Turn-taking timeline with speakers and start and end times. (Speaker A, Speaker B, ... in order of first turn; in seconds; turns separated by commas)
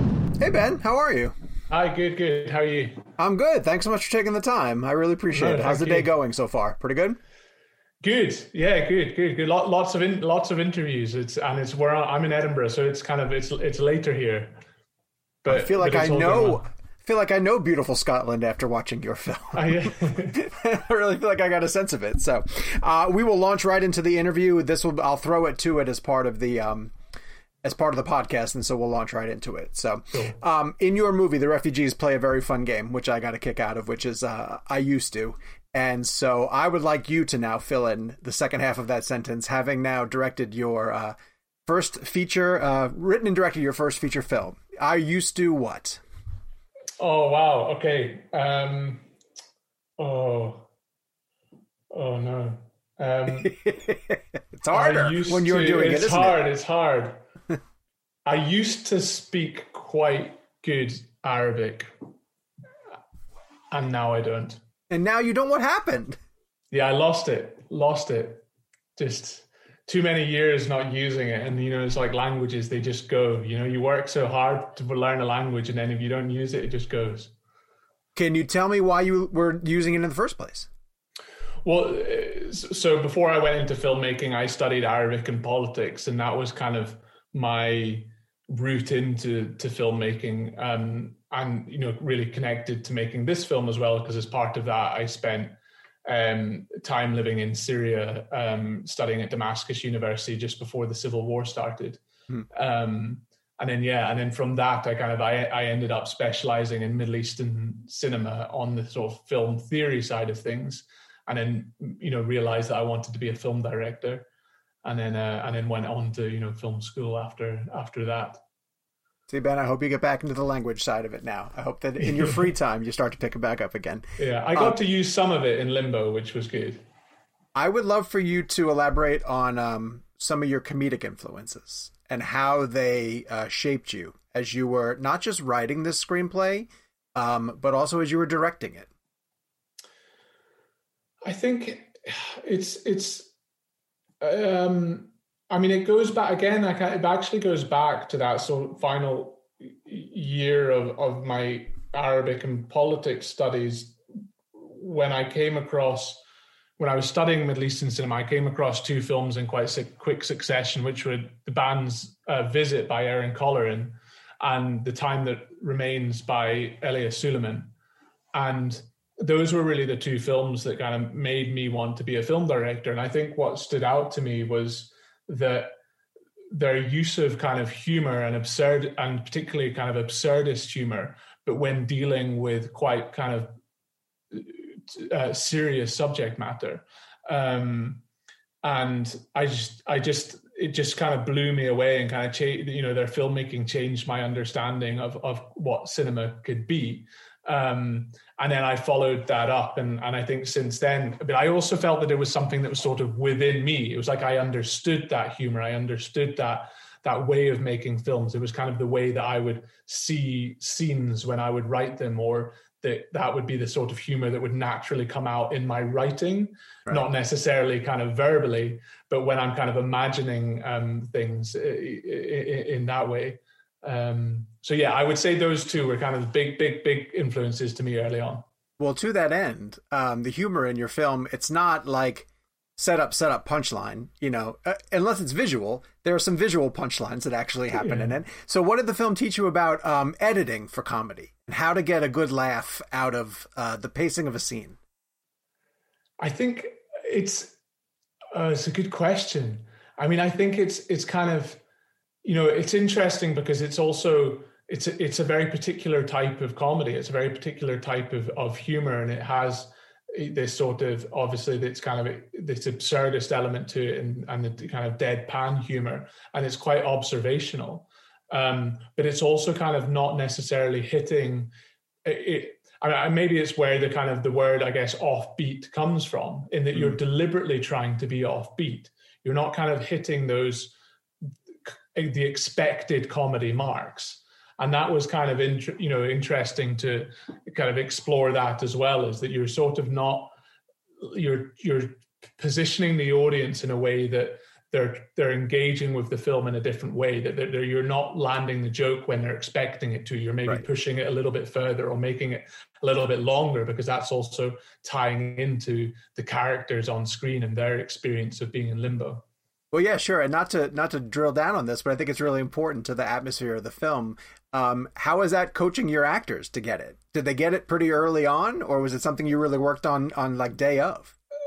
Speaker A: 0.4-1.3, Speaker B: 1.7-3.0, Speaker A: 3.2-7.2, Speaker B: 5.3-6.1, Speaker B: 8.0-14.6, Speaker B: 15.4-16.6, Speaker A: 15.5-26.9, Speaker B: 19.5-20.4, Speaker A: 27.6-41.1, Speaker A: 41.7-46.0, Speaker B: 47.0-49.1, Speaker B: 50.0-50.7, Speaker B: 51.9-53.6, Speaker A: 53.4-56.4, Speaker B: 54.7-57.2, Speaker B: 58.2-61.9, Speaker B: 63.7-64.6, Speaker A: 64.9-66.2, Speaker B: 66.7-68.5, Speaker B: 69.0-77.3, Speaker A: 78.2-80.7, Speaker B: 81.6-102.0, Speaker B: 102.5-114.3, Speaker B: 114.8-118.4, Speaker A: 119.3-124.8, Speaker B: 122.0-122.5, Speaker B: 124.2-126.8, Speaker A: 127.5-138.9, Speaker B: 141.2-143.3, Speaker B: 144.2-154.0, Speaker B: 154.6-156.2, Speaker B: 156.8-167.7, Speaker B: 168.3-175.7, Speaker B: 176.5-183.5, Speaker B: 184.3-188.0, Speaker B: 188.6-228.5, Speaker A: 228.8-244.8, Speaker B: 237.7-238.2, Speaker B: 246.2-247.6, Speaker B: 248.3-251.6, Speaker B: 252.2-271.5, Speaker B: 272.1-280.7, Speaker B: 281.9-290.3, Speaker B: 291.0-309.2, Speaker A: 309.7-321.1